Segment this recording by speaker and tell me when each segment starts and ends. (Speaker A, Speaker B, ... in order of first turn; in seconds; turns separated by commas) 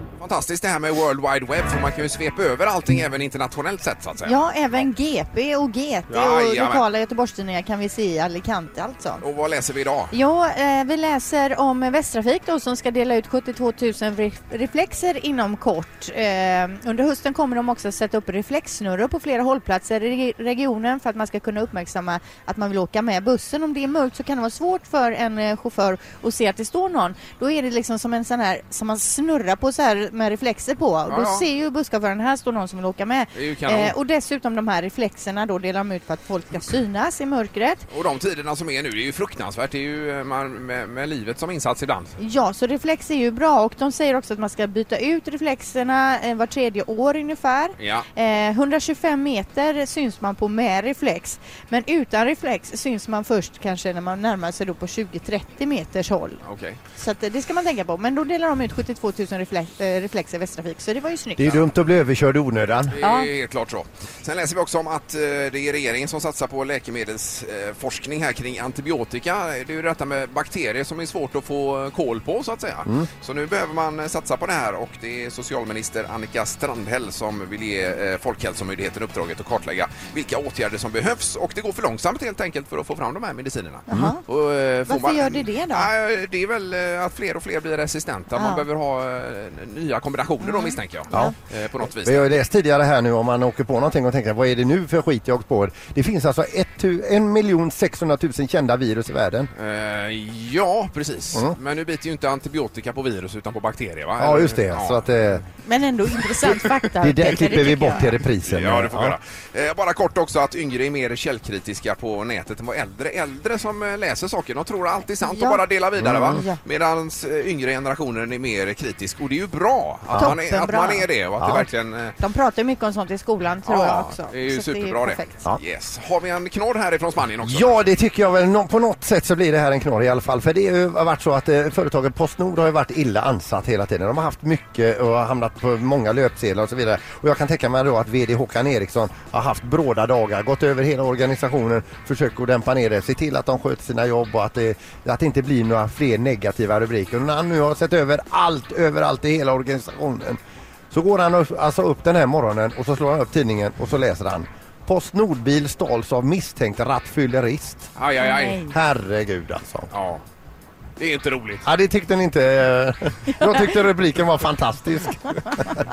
Speaker A: 0.2-4.8, Speaker B: 4.2-9.2, Speaker A: 6.1-6.8, Speaker A: 9.2-10.1, Speaker B: 10.1-37.9, Speaker A: 31.1-31.5, Speaker A: 33.3-34.0, Speaker A: 37.9-42.1, Speaker B: 42.2-56.4, Speaker A: 47.8-48.1, Speaker A: 56.4-56.8, Speaker B: 57.0-61.6, Speaker C: 61.4-63.0, Speaker A: 62.9-92.4, Speaker B: 63.0-63.3, Speaker B: 83.9-84.2, Speaker C: 83.9-84.2, Speaker B: 84.9-85.9, Speaker B: 88.3-88.7, Speaker B: 90.4-91.3, Speaker C: 92.0-99.5, Speaker A: 99.5-105.1, Speaker C: 104.2-105.4, Speaker B: 105.6-108.1, Speaker C: 107.0-109.2, Speaker A: 108.5-122.2, Speaker B: 115.2-115.6, Speaker C: 116.0-116.4, Speaker B: 116.2-116.6, Speaker B: 120.2-121.1, Speaker C: 121.4-121.7, Speaker B: 122.2-125.4, Speaker A: 123.7-127.8, Speaker C: 127.4-150.4, Speaker C: 150.9-157.9, Speaker A: 158.0-158.7, Speaker B: 158.2-158.7, Speaker C: 158.7-159.9, Speaker A: 159.9-160.2, Speaker A: 161.0-161.7, Speaker C: 161.6-165.8